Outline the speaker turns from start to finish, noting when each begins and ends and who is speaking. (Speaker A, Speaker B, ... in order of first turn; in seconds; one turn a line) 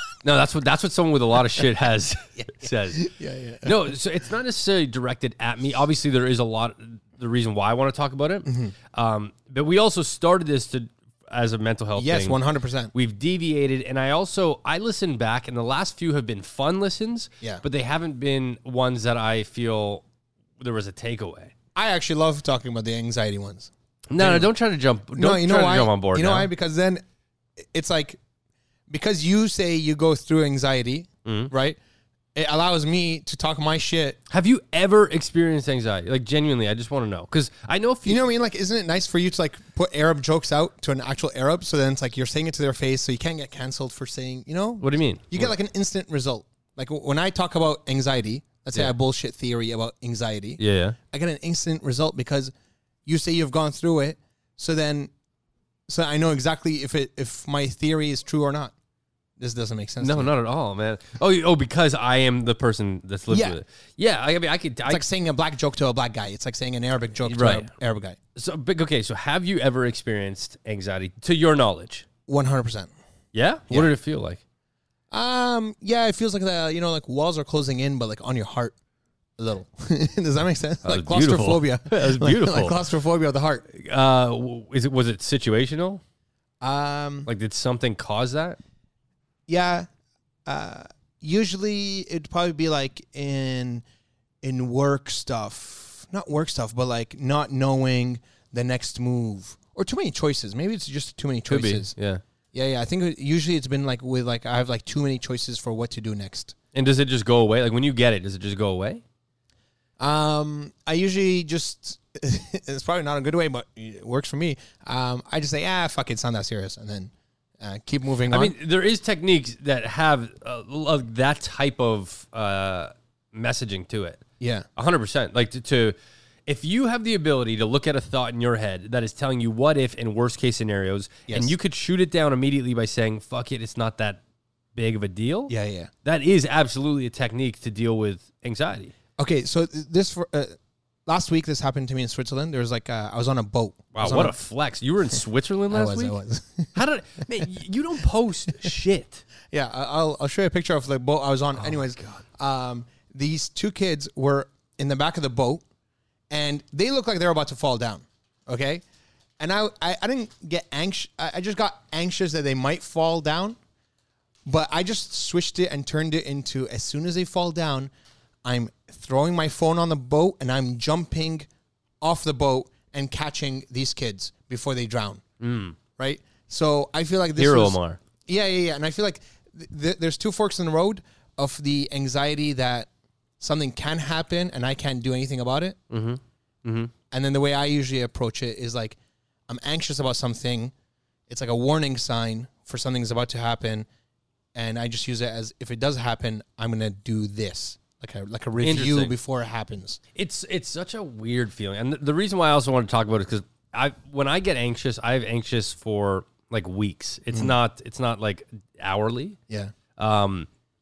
Speaker A: 0.2-3.1
Speaker B: 2.4-3.9
Speaker A: 3.6-12.4
Speaker B: 8.4-8.7
Speaker B: 12.0-12.9
Speaker A: 12.9-20.0
Speaker A: 20.6-21.5
Speaker B: 21.7-24.5
Speaker A: 24.1-26.5
Speaker B: 25.1-27.0
Speaker B: 27.6-28.2
Speaker B: 28.9-31.8
Speaker A: 31.2-31.5
Speaker B: 32.3-34.2
Speaker A: 34.3-38.2
Speaker B: 38.0-50.6
Speaker A: 44.8-45.5
Speaker A: 50.6-51.0
Speaker B: 51.1-52.5
Speaker B: 53.0-55.1
Speaker B: 55.9-58.7
Speaker B: 59.4-60.3
Speaker A: 60.0-65.0
Speaker B: 63.3-63.6
Speaker B: 64.9-68.2
Speaker A: 67.2-67.7
Speaker A: 68.3-72.0
Speaker B: 72.3-72.9
Speaker A: 73.3-74.4
Speaker B: 75.1-78.7
Speaker B: 79.4-83.7
Speaker A: 80.8-82.8
Speaker A: 83.7-86.0
Speaker B: 86.6-87.3
Speaker A: 87.2-88.6
Speaker B: 89.5-89.9
Speaker B: 90.5-93.8
Speaker B: 94.4-101.9
Speaker A: 101.5-102.2
Speaker B: 102.5-106.5
Speaker A: 106.7-109.0
Speaker B: 110.0-118.5
Speaker A: 118.3-124.2
Speaker B: 124.4-124.7
Speaker A: 124.8-134.2
Speaker B: 131.3-131.5
Speaker A: 134.7-135.5
Speaker B: 135.5-135.9
Speaker A: 136.0-138.9
Speaker B: 139.2-144.3
Speaker A: 143.9-146.2
Speaker B: 145.7-146.7
Speaker A: 146.7-149.2
Speaker B: 149.5-155.6
Speaker A: 151.6-152.2
Speaker B: 156.3-158.8
Speaker B: 159.4-163.6
Speaker B: 164.4-167.9
Speaker B: 168.4-171.5
Speaker B: 172.0-175.2
Speaker A: 175.4-175.8
Speaker B: 176.0-185.8
Speaker A: 177.3-178.0
Speaker A: 185.9-186.9
Speaker B: 187.1-190.7
Speaker B: 191.3-193.9
Speaker B: 194.5-200.0
Speaker A: 198.6-199.1
Speaker A: 200.1-209.4
Speaker B: 209.5-209.7
Speaker A: 209.9-210.5